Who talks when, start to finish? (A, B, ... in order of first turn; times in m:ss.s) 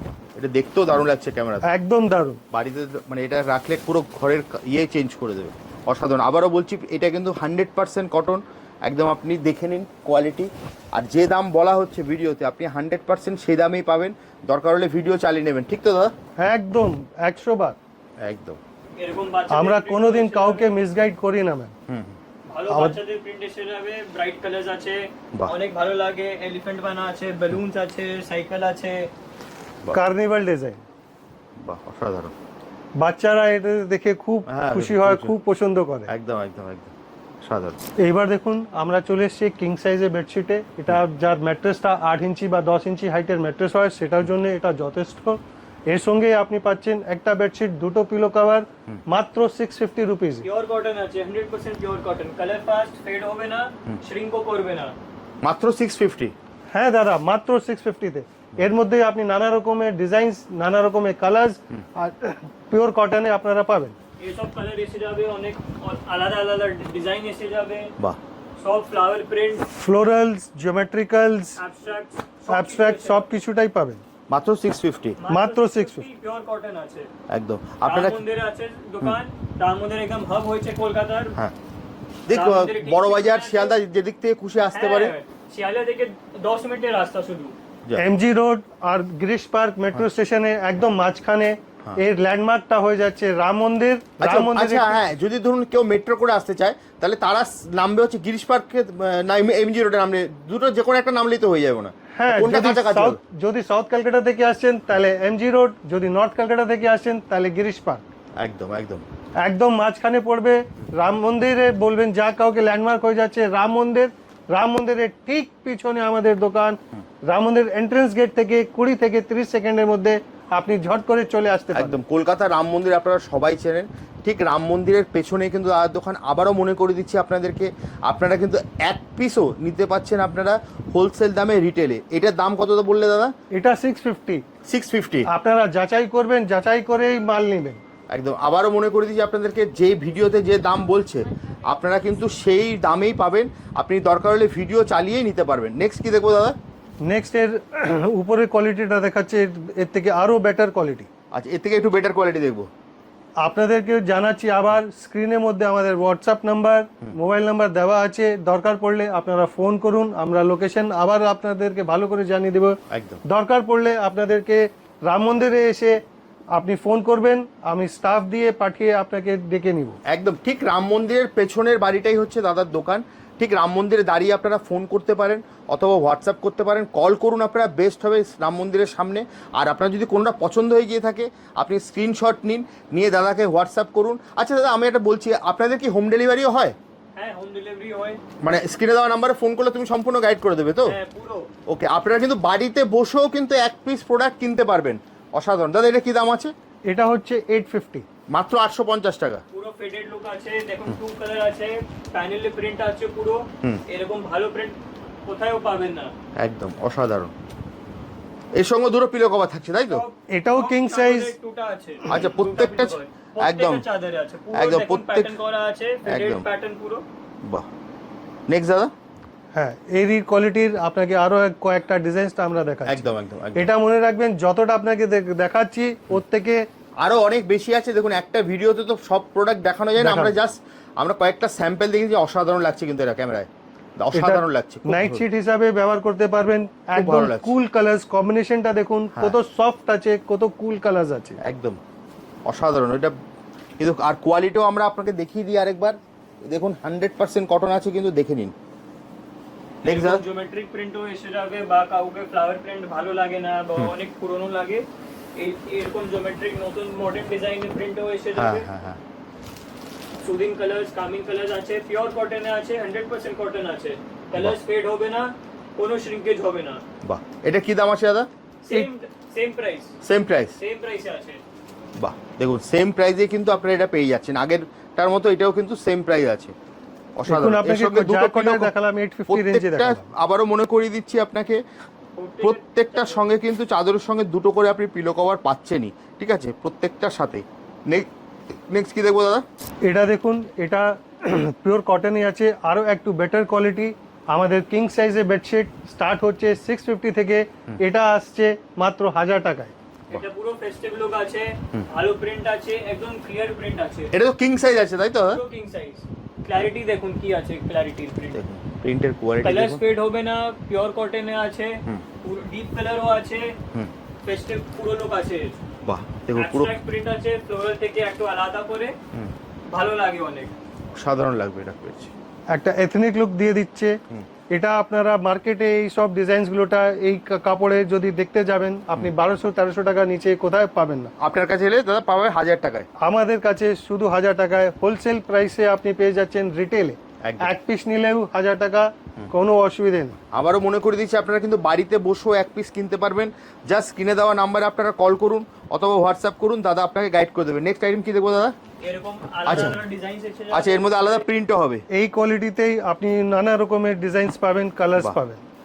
0:00.4-0:01.7 A
0:01.6-0:02.4 B
0:02.5-0:16.1 A
0:16.4-0:17.8 B
0:18.2-0:18.6 A
0:19.0-0:20.7 C
0:19.5-0:21.8 B
0:21.9-0:22.2 A
0:22.5-0:29.1 C
0:22.7-0:23.0 B
0:29.9-0:30.8 B
0:31.6-0:32.3 A
0:33.0-0:36.1 B
0:34.5-0:35.3 A
0:36.1-0:37.8 A
0:38.0-0:50.5 B
0:50.4-0:55.0 C
0:55.4-0:56.3 A
0:56.7-1:04.0 B
1:04.2-1:07.9 C
1:08.6-1:09.7 C
1:09.8-1:11.6 B
1:11.6-1:13.3 C
1:12.5-1:14.0 B
1:14.3-1:15.2 A
1:15.2-1:17.1 C
1:15.3-1:16.1 B
1:17.3-1:18.2 A
1:17.9-1:21.4 C
1:22.3-1:25.1 A
1:22.3-1:23.8 C
1:24.7-1:27.6 C
1:28.0-1:35.0 B
1:34.2-1:43.2 A
1:42.2-1:48.0 B
1:48.4-1:49.0 A
1:49.4-2:02.0 B
2:01.7-2:13.3 A
2:13.5-2:14.4 B
2:14.6-2:15.3 A
2:15.3-2:17.8 B
2:18.1-2:26.6 A
2:27.0-2:31.1 B
2:31.3-2:32.7 A
2:33.4-2:46.0 B
2:42.9-2:43.2 A
2:46.5-2:50.0 B
2:50.1-3:06.8 A
3:07.2-3:08.2 C
3:08.4-3:11.0 A
3:10.8-3:11.5 C
3:11.7-3:16.5 A
3:16.9-3:18.1 B
3:18.3-3:19.4 A
3:19.5-3:26.1 C
3:26.4-3:27.3 A
3:28.6-3:30.0 A
3:29.9-3:37.0 C
3:30.3-3:31.4 B
3:32.1-3:33.9 A
3:34.5-3:35.3 A
3:36.0-3:36.4 A
3:38.5-3:38.9 A
3:39.5-3:46.7 B
3:42.9-3:43.7 A
3:47.0-3:55.2 A
3:50.0-3:50.4 B
3:54.1-4:01.4 B
3:57.0-3:57.5 A
4:01.4-4:01.8 A
4:02.5-4:03.2 A
4:03.8-4:08.5 A
4:09.8-4:18.7 C
4:09.8-4:10.2 A
4:18.4-4:19.0 A
4:20.2-4:26.8 C
4:27.0-4:28.3 A
4:28.6-4:30.0 C
4:30.0-4:30.6 A
4:30.6-4:31.4 C
4:32.0-4:36.5 A
4:37.2-4:38.7 A
4:37.3-4:40.1 B
4:39.3-4:41.6 A
4:42.2-4:43.2 C
4:42.4-4:48.1 A
4:48.7-4:49.4 A
4:49.8-4:59.7 B
5:00.1-5:04.1 C
5:04.1-5:05.4 A
5:05.3-5:08.4 C
5:08.3-5:09.8 A
5:09.4-5:13.6 C
5:14.2-5:15.6 C
5:15.8-5:16.8 A
5:16.3-5:19.0 C
5:19.7-5:20.5 C
5:20.9-5:22.1 A
5:22.5-5:31.1 B
5:31.2-5:32.9 A
5:33.0-5:40.2 B
5:37.2-5:37.5 A
5:40.3-5:48.6 A
5:48.8-5:51.2 C
5:49.5-5:49.8 A
5:50.5-5:51.8 A
5:51.9-5:55.4 B